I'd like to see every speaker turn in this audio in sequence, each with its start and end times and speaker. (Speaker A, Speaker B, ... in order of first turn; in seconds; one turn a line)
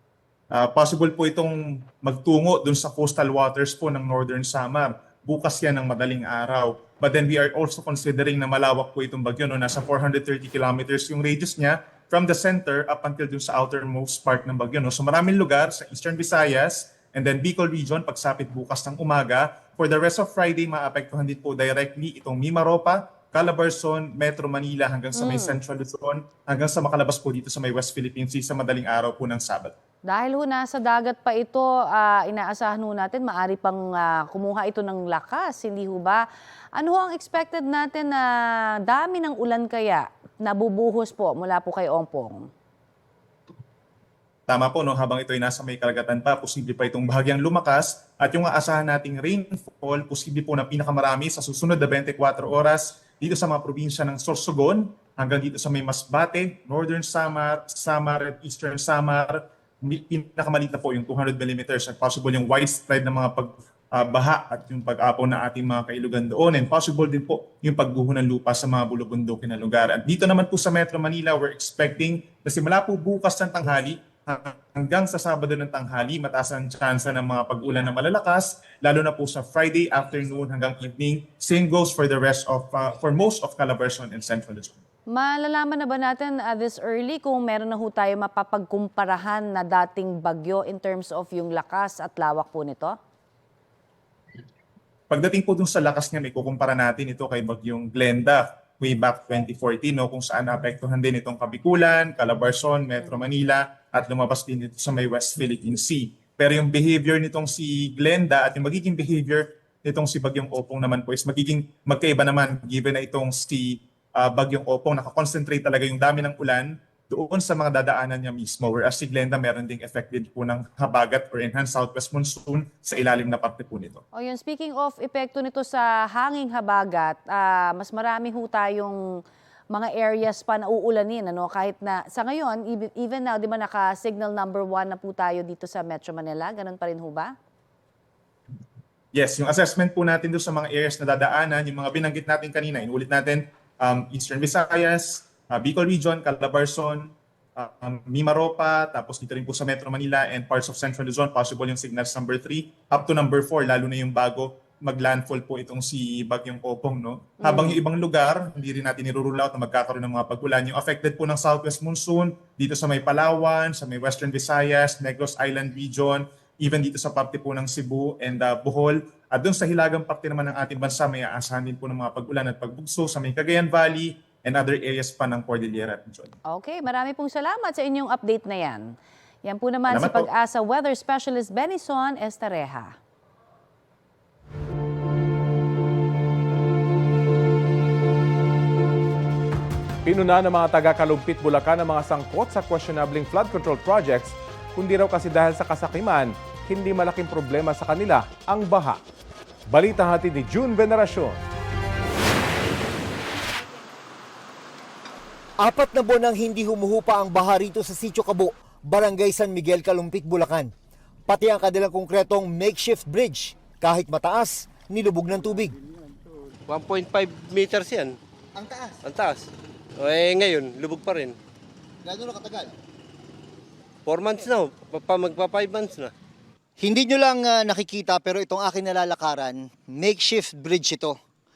Speaker A: 0.5-29.7
Speaker B: 25.1-25.6
Speaker B: 30.0-42.5
Speaker A: 44.5-84.8
Speaker B: 85.1-93.0
Speaker A: 95.1-124.0
Speaker B: 124.1-129.0
Speaker B: 129.7-137.3
Speaker A: 139.1-176.3
Speaker B: 157.4-157.8
Speaker B: 176.4-182.9
Speaker A: 179.9-180.3
Speaker C: 190.0-199.0
Speaker C: 199.7-201.4
Speaker D: 205.6-210.7
Speaker D: 211.3-215.7
Speaker E: 216.7-218.2
Speaker D: 218.5-218.9
Speaker E: 219.0-219.4
Speaker E: 220.0-221.3
Speaker D: 222.0-222.7
Speaker E: 224.1-226.1
Speaker D: 226.8-231.2